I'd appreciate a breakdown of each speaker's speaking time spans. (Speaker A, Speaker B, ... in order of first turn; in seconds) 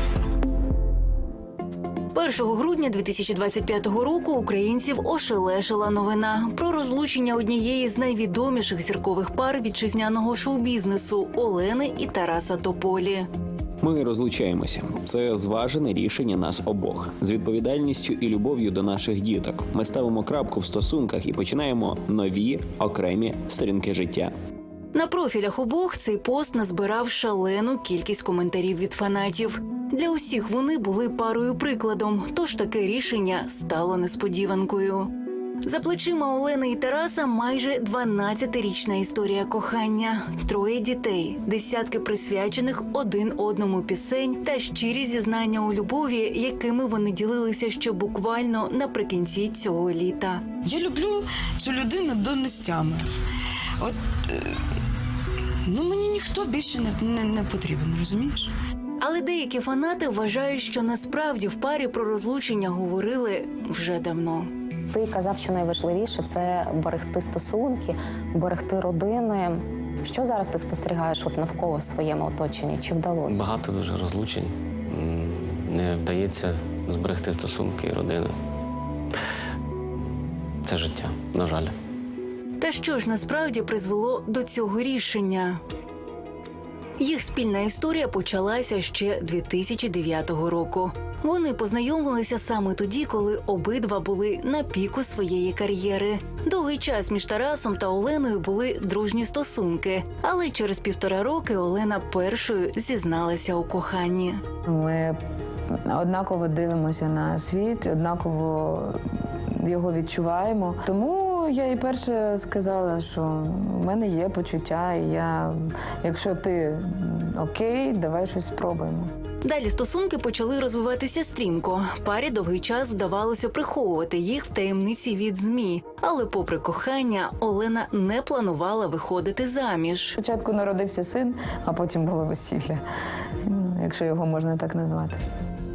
Speaker A: 2.1-13.3, 24.9-35.1, 35.6-50.5, 59.0-64.5, 82.6-85.6, 87.0-104.4, 119.4-130.2
Speaker B: 13.8-24.3
Speaker C: 50.7-53.0, 55.7-58.5
Speaker D: 64.9-73.5
Speaker E: 73.3-78.3, 80.7-81.7
Speaker F: 104.7-105.2, 105.9-109.0, 109.6-119.1, 130.2-132.8, 133.4-135.2